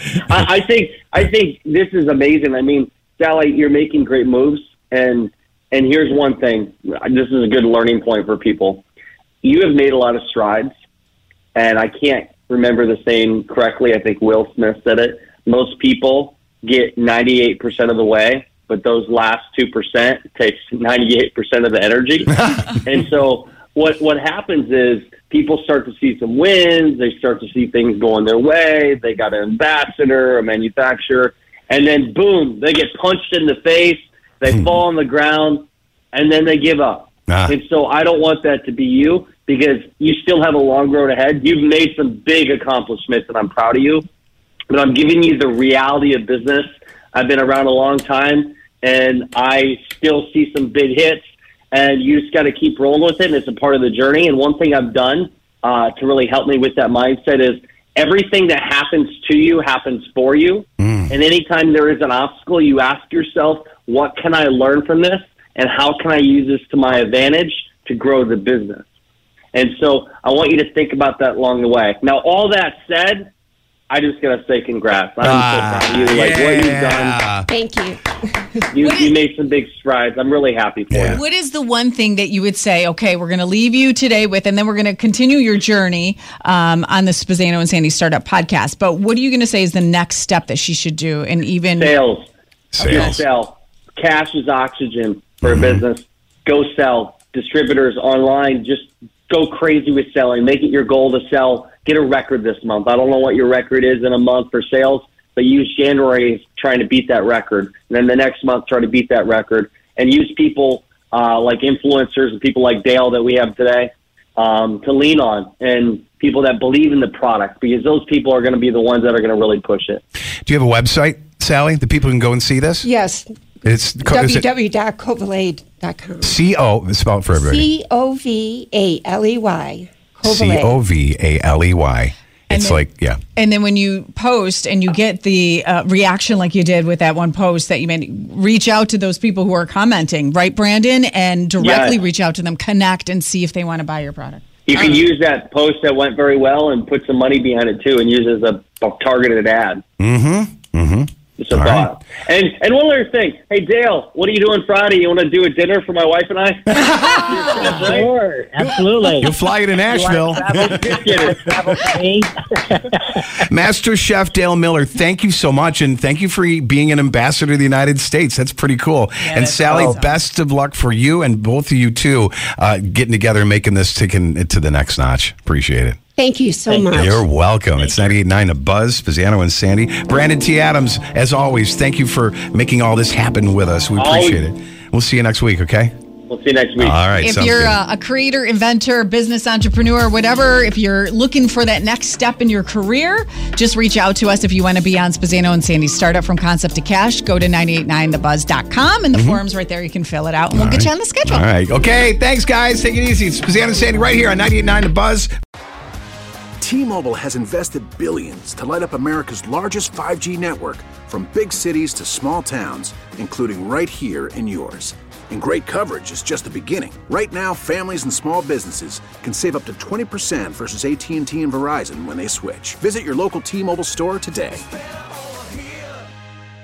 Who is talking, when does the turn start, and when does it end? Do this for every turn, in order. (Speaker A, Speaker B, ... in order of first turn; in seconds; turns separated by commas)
Speaker A: 0.2-8.8, Speaker A: 9.4-10.7, Speaker A: 11.6-44.0, Speaker B: 37.3-37.5, Speaker A: 44.7-68.8, Speaker B: 60.8-61.1, Speaker A: 69.5-73.3, Speaker A: 73.9-77.2, Speaker B: 75.2-77.5, Speaker C: 77.5-78.6, Speaker A: 78.7-81.2, Speaker D: 78.8-79.1, Speaker B: 80.9-81.2, Speaker D: 81.1-91.9, Speaker A: 91.7-92.3, Speaker B: 92.7-93.2, Speaker A: 92.8-120.0, Speaker D: 92.9-93.1, Speaker B: 95.4-95.8, Speaker B: 120.4-122.8, Speaker C: 122.8-123.3, Speaker B: 123.6-124.5, Speaker C: 124.0-126.4, Speaker B: 126.2-127.7, Speaker C: 127.3-130.8, Speaker B: 130.2-133.2, Speaker D: 132.5-132.8, Speaker D: 133.3-145.0, Speaker A: 141.6-142.0, Speaker A: 144.7-149.8, Speaker B: 150.0-151.9, Speaker A: 151.4-158.1, Speaker B: 156.7-157.4, Speaker D: 157.2-157.6, Speaker E: 157.6-159.3, Speaker B: 159.1-161.7, Speaker E: 159.9-163.0, Speaker A: 160.6-161.4, Speaker B: 163.5-176.0, Speaker D: 169.2-170.1, Speaker C: 176.2-177.2, Speaker B: 176.9-185.9, Speaker A: 184.0-184.4, Speaker A: 186.3-187.0, Speaker B: 186.8-187.8, Speaker D: 187.2-201.4, Speaker B: 199.1-199.4, Speaker B: 200.5-205.3, Speaker F: 206.6-224.6